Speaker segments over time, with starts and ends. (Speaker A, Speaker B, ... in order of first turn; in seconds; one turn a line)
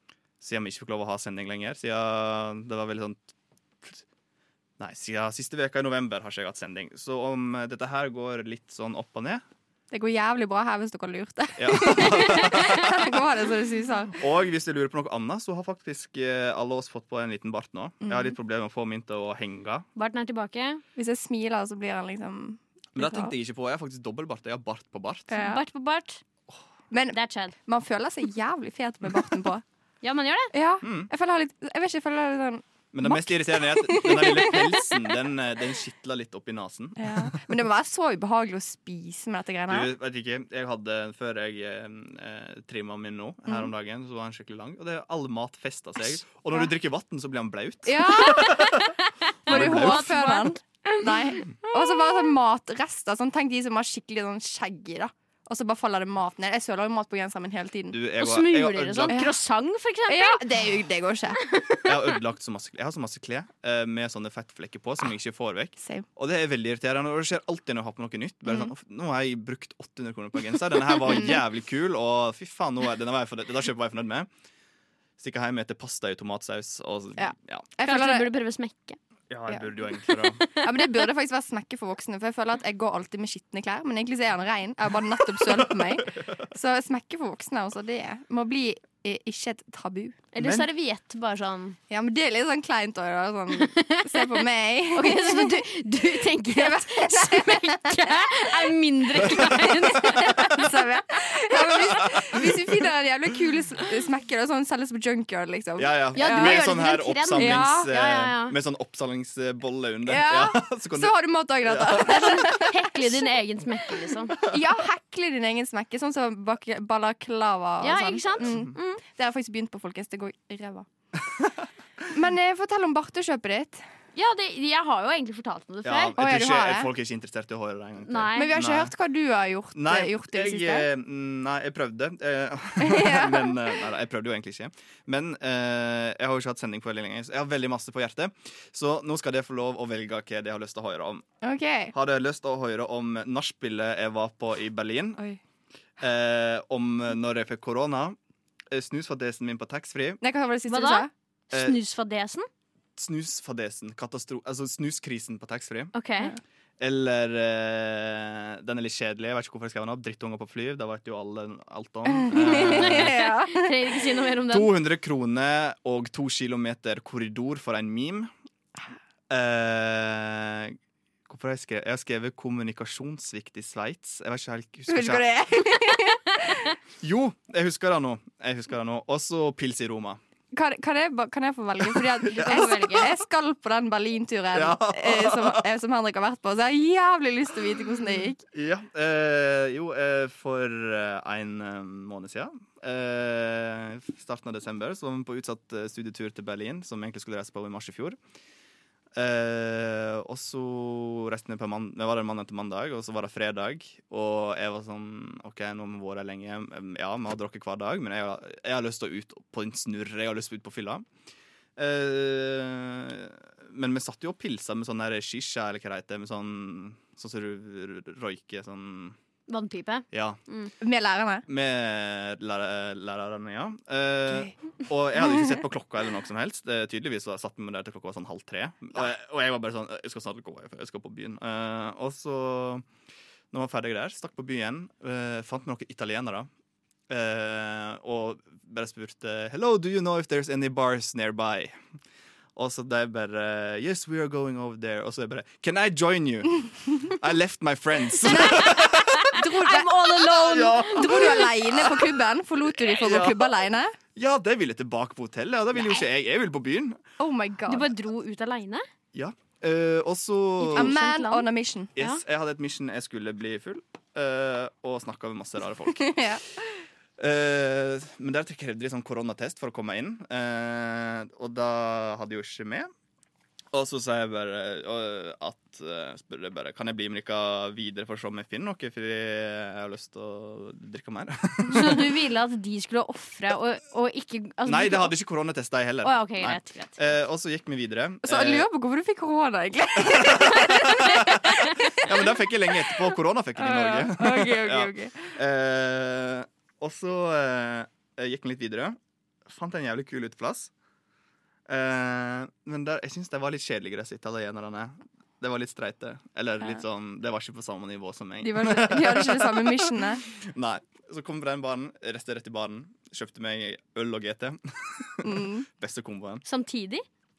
Speaker A: 0.4-4.0
Speaker A: 4.8-9.4
Speaker B: 9.9-14.2
Speaker A: 11.6-13.2
Speaker A: 14.1-19.9
Speaker B: 18.0-18.4
Speaker C: 20.0-20.8
Speaker B: 21.0-23.3
Speaker A: 23.0-25.4
Speaker B: 25.3-25.6
Speaker C: 25.4-26.2
Speaker B: 26.9-29.6
Speaker C: 27.1-27.6
Speaker C: 30.0-30.5
Speaker B: 30.5-35.1
Speaker A: 30.8-31.1
Speaker A: 32.9-37.4
Speaker B: 37.0-39.9
Speaker A: 39.7-48.9
Speaker B: 47.9-48.7
Speaker A: 49.5-50.2
Speaker C: 49.5-52.0
Speaker B: 49.5-58.0
Speaker A: 57.9-59.1
Speaker C: 58.2-60.4
Speaker B: 59.1-59.4
Speaker B: 60.1-61.4
Speaker C: 61.5-61.9
Speaker A: 61.8-74.3
Speaker B: 65.8-66.0
Speaker B: 71.0-71.3
Speaker A: 75.2-77.7
Speaker B: 77.2-78.3
Speaker C: 77.8-79.0
Speaker A: 79.3-80.5
Speaker B: 80.6-90.2
Speaker A: 85.4-86.3
Speaker C: 90.3-91.8
Speaker A: 90.4-90.7
Speaker B: 91.9-95.6
Speaker C: 93.6-94.4
Speaker C: 95.0-100.6
Speaker B: 96.2-106.6
Speaker A: 99.2-100.4
Speaker A: 101.7-102.5
Speaker A: 105.8-111.1
Speaker C: 106.1-108.5
Speaker B: 107.4-107.9
Speaker B: 110.1-113.2
Speaker A: 111.6-112.4
Speaker C: 112.0-114.4
Speaker B: 114.4-120.9
Speaker C: 117.8-119.0
Speaker A: 118.4-118.7
Speaker B: 122.1-123.8
Speaker C: 124.1-126.2
Speaker A: 125.8-128.9
Speaker B: 126.2-126.9
Speaker C: 128.1-128.6
Speaker B: 128.4-130.9
Speaker A: 129.8-141.2
Speaker B: 132.8-133.7
Speaker B: 141.4-141.9
Speaker A: 141.9-145.2
Speaker A: 146.0-148.2
Speaker A: 148.7-150.2
Speaker B: 150.2-151.1
Speaker C: 150.7-152.5
Speaker A: 151.5-151.8
Speaker A: 153.0-155.9
Speaker C: 155.9-156.4
Speaker A: 156.8-163.2
Speaker B: 162.2-163.8
Speaker C: 162.4-164.7
Speaker A: 164.5-168.3
Speaker A: 169.3-170.8
Speaker A: 171.3-175.2
Speaker B: 174.9-176.7
Speaker A: 177.0-180.2
Speaker B: 180.5-188.4
Speaker A: 181.8-182.9
Speaker C: 182.3-183.1
Speaker A: 184.5-185.6
Speaker A: 188.5-198.2
Speaker A: 199.1-211.1
Speaker A: 211.8-219.2
Speaker C: 219.5-220.7
Speaker A: 220.1-220.4
Speaker B: 220.8-221.4
Speaker A: 221.5-232.9
Speaker A: 233.5-236.5
Speaker A: 237.1-241.8
Speaker A: 242.6-249.3
Speaker B: 248.2-254.0
Speaker C: 248.6-251.5
Speaker A: 250.4-252.1
Speaker A: 252.8-253.5
Speaker A: 254.2-257.0
Speaker B: 257.2-257.9
Speaker C: 257.7-258.8
Speaker A: 259.1-260.9
Speaker C: 260.6-262.2
Speaker B: 260.7-261.9
Speaker A: 262.0-266.2
Speaker B: 266.0-266.4
Speaker A: 267.2-272.9
Speaker A: 273.7-282.1
Speaker C: 281.7-285.1
Speaker A: 284.6-288.7
Speaker C: 286.0-287.0
Speaker B: 288.2-295.4
Speaker A: 290.0-300.7
Speaker A: 301.7-316.4
Speaker B: 308.4-310.2
Speaker B: 315.2-315.7
Speaker C: 316.4-317.1